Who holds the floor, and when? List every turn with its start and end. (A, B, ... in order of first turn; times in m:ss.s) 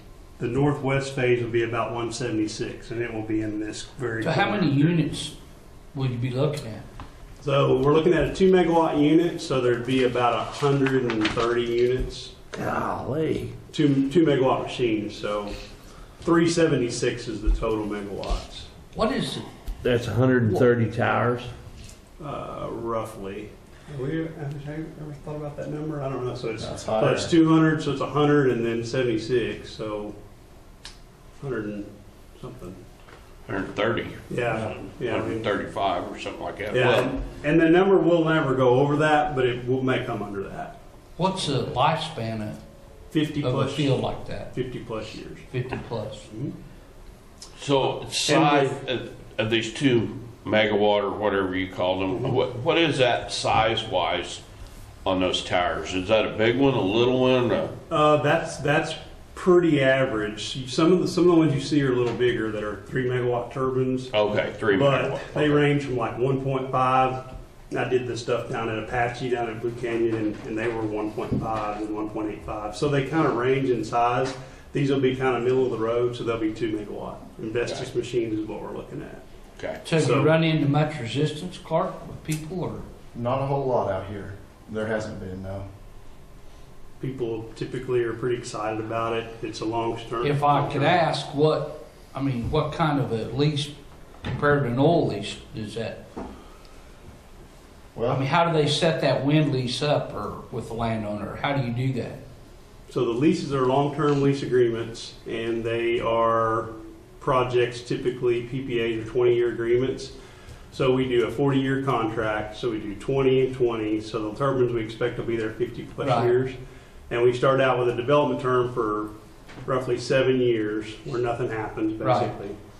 0:00.4-0:04.9 A
0:04.2-0:05.3 B
0:05.9-0:06.8 B
0:07.4-0:12.3 A
0:12.5-0:13.5 C
0:13.7-0:15.6 A
0:16.2-0:18.7 A
0:18.9-0:19.5 B
0:19.8-0:21.5 C
0:22.2-0:30.1 A
0:26.6-0:27.3 D
0:31.4-0:32.8 A
0:33.5-0:37.1 E
0:34.3-0:35.5 A
0:36.7-0:40.8 A
0:41.2-0:42.6 B
0:41.4-0:41.7 A
0:43.1-0:45.5 A
0:43.4-0:44.6 B
0:45.5-0:46.3 B
0:46.3-0:46.5 A
0:47.6-0:54.4 E
0:48.3-0:48.7 A
0:52.1-0:52.4 A
0:55.0-0:57.7 E
0:57.9-1:04.1 A
1:04.1-1:05.6 E
1:04.7-1:19.2 A
1:19.6-1:19.8 E
1:19.8-1:22.8 B
1:19.9-1:20.3 A
1:23.1-1:25.6 D
1:27.0-1:31.0 A
1:30.2-1:36.0 B
1:37.9-1:38.2 D
1:38.1-1:42.2 B
1:42.9-1:50.1 A
1:50.7-1:56.6 A
1:56.0-1:56.3 B
1:57.1-1:59.1 A
1:59.6-2:02.6 A
2:02.0-2:02.3 B